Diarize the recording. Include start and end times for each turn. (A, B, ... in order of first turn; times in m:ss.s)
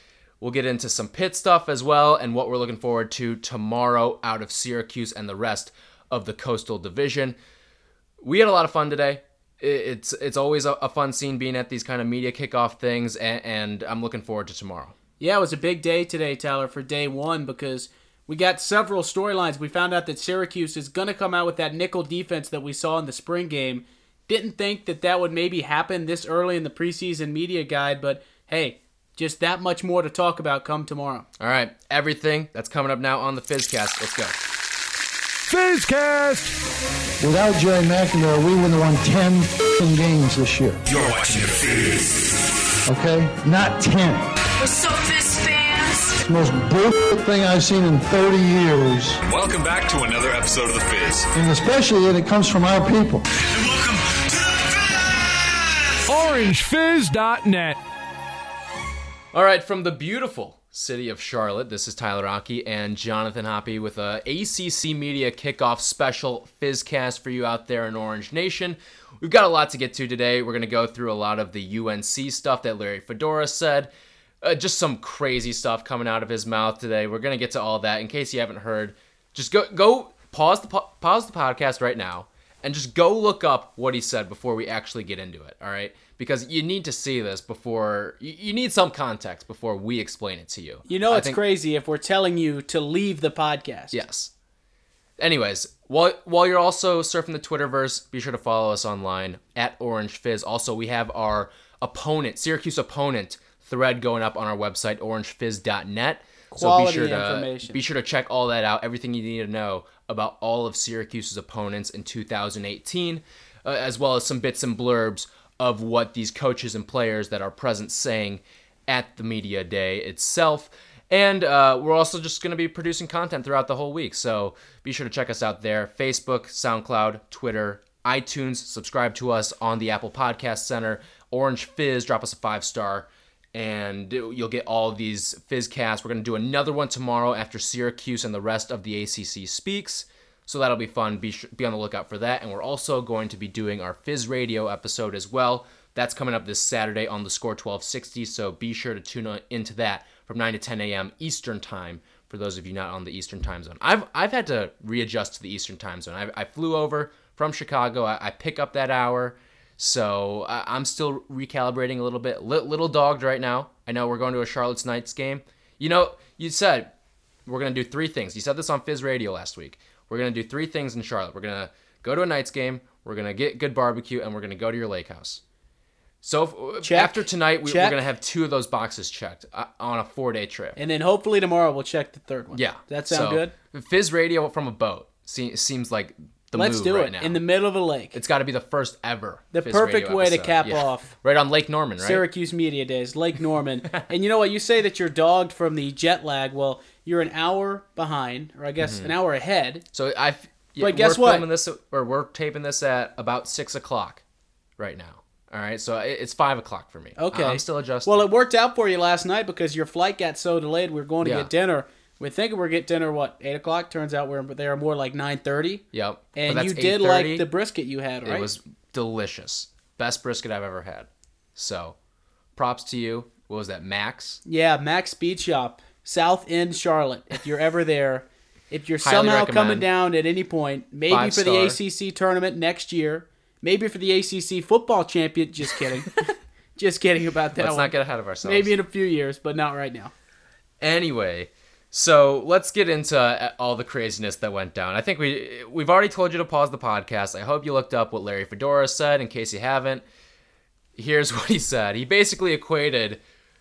0:00.4-0:07.4 A
0:08.2-0:15.0 A
0:15.2-0:31.3 B
0:31.4-0:34.4 A
0:35.5-0:36.5 C
0:37.2-0:40.8 D
0:40.9-0:42.3 E
0:42.9-0:44.3 D
0:44.6-0:46.2 E
0:46.2-0:49.2 D
0:49.3-0:51.3 E
0:51.3-0:53.3 D
0:53.4-0:56.3 E
0:56.1-0:57.8 C
0:59.3-1:13.9 A
1:14.4-1:31.4 A
1:30.9-1:34.0 B
1:33.9-1:34.3 A
1:35.2-2:46.9 A
1:46.5-1:47.8 B
2:47.5-2:55.4 A
2:56.2-3:00.8 A
2:56.8-2:58.0 B
3:00.8-3:03.5 B
3:02.5-3:07.4 A
3:06.6-3:08.2 B
3:08.1-3:12.2 A
3:09.5-3:11.2 B
3:12.0-3:19.8 B
3:18.8-3:19.1 A
3:19.9-3:24.2 A
3:20.8-3:21.5 B
3:24.8-3:28.2 A
3:27.2-3:38.5 B
3:31.2-3:31.5 A
3:35.9-3:37.5 A
3:38.2-3:42.0 A
3:42.6-3:44.4 A
3:44.5-3:56.2 B
3:49.0-3:49.8 A
3:51.1-3:51.8 A
3:56.8-3:57.9 B
3:57.6-3:58.7 A
3:58.4-4:00.1 B
4:00.8-4:10.0 A
4:11.0-4:13.2 A